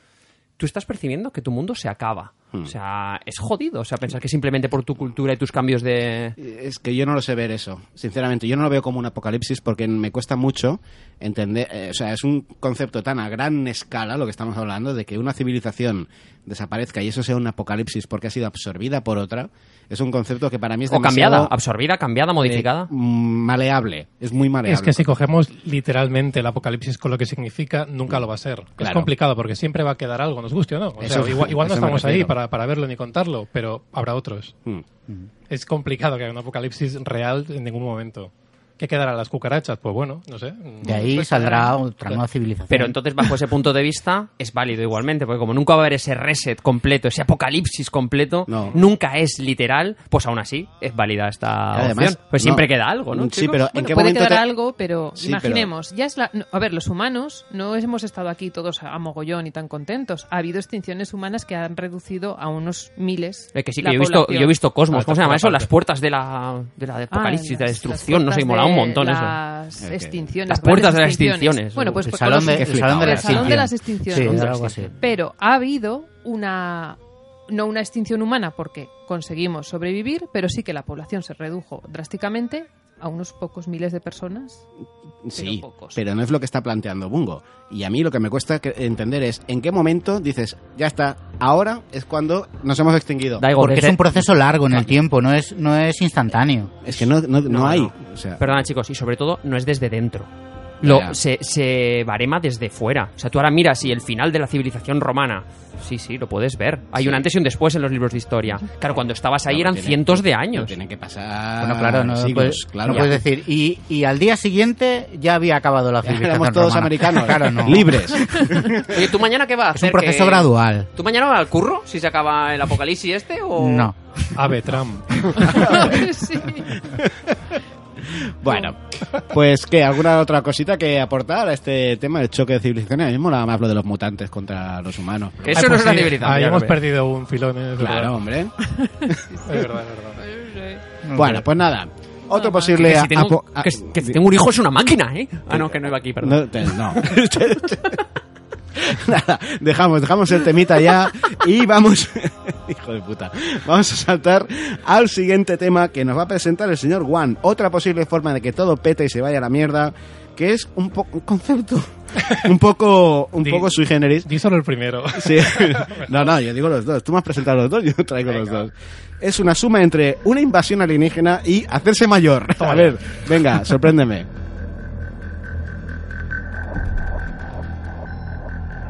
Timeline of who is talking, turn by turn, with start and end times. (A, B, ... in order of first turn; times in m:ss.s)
0:00.6-0:06.4 A
0:06.4-0:21.5 B
0:20.9-0:22.9 A
0:22.4-0:25.1 B
0:24.6-0:34.6 C
0:28.8-0:29.1 B
0:31.0-0:32.3 B
0:35.5-0:41.2 C
0:40.8-0:41.8 D
0:40.8-0:42.9 E
0:42.7-0:53.6 A
0:48.5-0:48.8 B
0:51.7-0:54.4 B
0:53.7-1:04.5 D
0:55.2-0:55.7 B
1:03.5-1:09.4 A
1:04.9-1:05.6 C
1:07.1-1:24.6 D
1:09.8-1:10.2 B
1:10.5-1:12.0 A
1:12.0-1:14.9 E
1:12.4-1:13.7 B
1:14.2-1:14.9 A
1:25.2-1:33.5 B
1:25.3-1:26.0 D
1:33.4-1:34.2 A
1:33.6-1:36.8 E
1:36.8-1:38.4 B
1:37.4-1:40.3 A
1:40.8-1:41.2 B
1:40.8-1:50.7 A
1:47.0-1:47.2 B
1:49.5-1:53.2 B
1:51.6-1:58.8 E
1:56.0-1:58.9 B
1:58.8-2:03.9 A
1:59.7-2:00.9 E
2:03.6-2:04.3 E
2:04.3-2:05.9 C
2:05.4-2:06.9 D
2:05.5-2:05.8 B
2:06.9-2:07.4 B
2:08.0-2:15.6 B
2:15.4-2:16.8 A
2:15.5-2:18.2 C
2:17.8-2:18.5 B
2:18.7-2:20.8 D
2:19.5-2:20.2 C
2:21.0-2:21.5 E
2:21.1-2:24.2 B
2:22.3-2:22.8 D
2:22.7-2:27.2 A
2:25.5-2:28.0 B
2:28.7-2:44.3 B
2:43.4-2:43.7 C
2:44.2-2:46.1 C
2:45.1-2:54.3 B
2:52.6-2:53.2 C